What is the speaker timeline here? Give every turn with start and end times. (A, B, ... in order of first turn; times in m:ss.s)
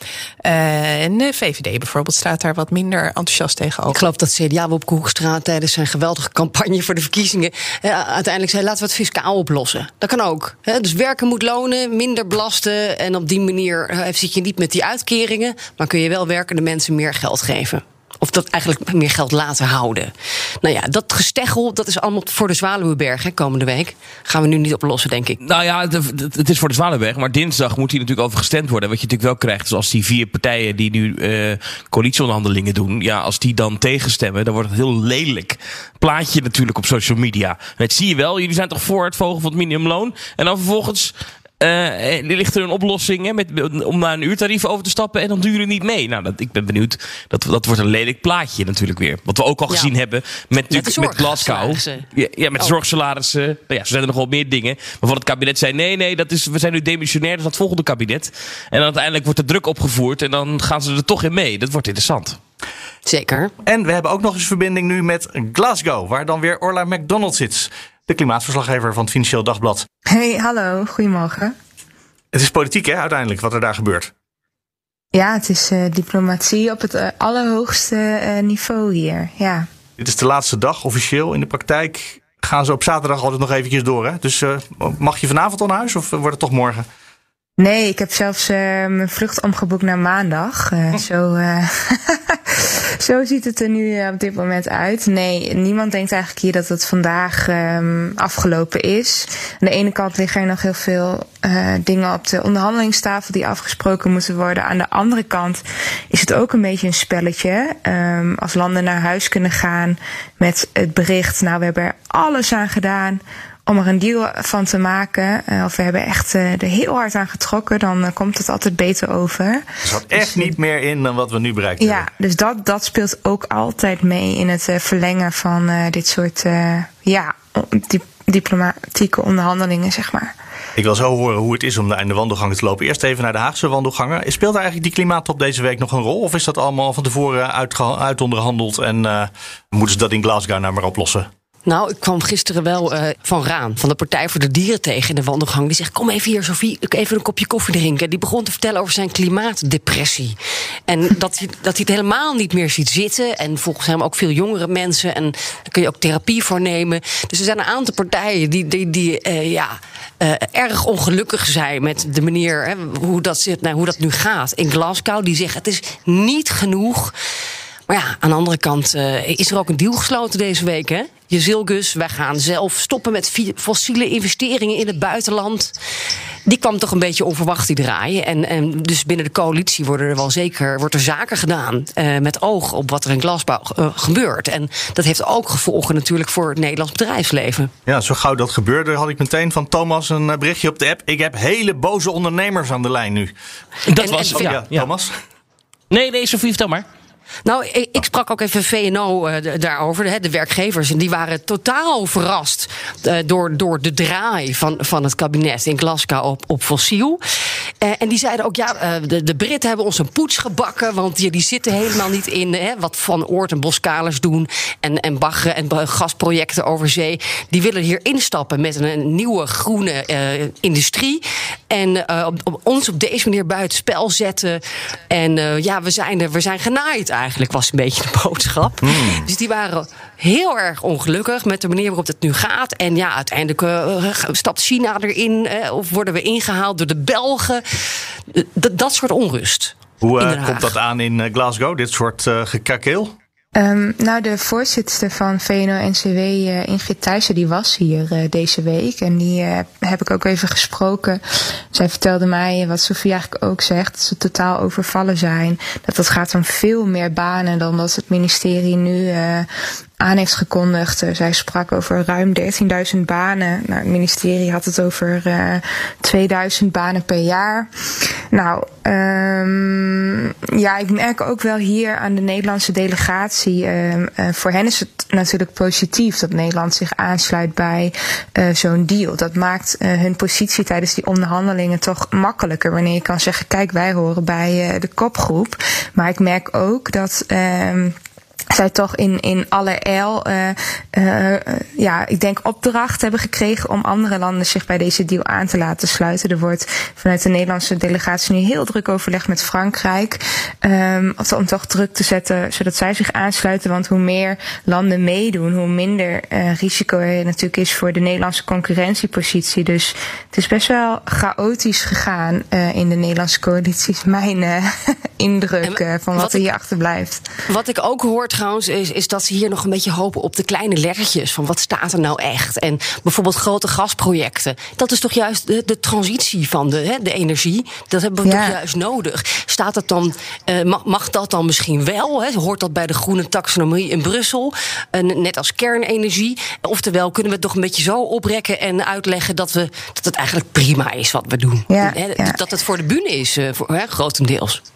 0:00.4-0:04.0 A
0:03.9-0:25.4 B
0:25.4-1:02.4 C
0:50.7-0:52.0 B
1:03.0-1:03.5 B
1:03.6-1:09.8 D
1:10.1-1:11.5 E
1:12.3-1:14.1 D
1:15.1-1:19.7 E
1:20.0-1:26.8 D
1:27.6-1:59.6 E
1:59.8-2:02.1 D
2:00.2-2:00.5 E
2:01.8-2:10.3 E
2:10.8-2:21.3 D
2:21.6-2:30.4 B
2:30.9-2:47.1 B
2:47.9-2:55.7 B
2:56.4-3:07.7 B
3:07.8-3:13.3 D
3:13.9-3:14.9 C
3:14.0-3:14.5 B
3:14.3-3:15.2 D
3:15.9-3:16.8 C
3:17.4-3:27.2 B
3:27.8-4:00.7 B
3:48.8-3:49.3 D
4:00.0-4:03.1 D
4:03.5-4:19.5 E
4:20.0-4:27.7 E
4:28.3-4:48.0 E
4:48.5-5:17.3 E
5:15.6-5:16.4 B
5:17.5-5:44.6 B
5:28.2-5:28.6 E
5:41.7-5:42.4 E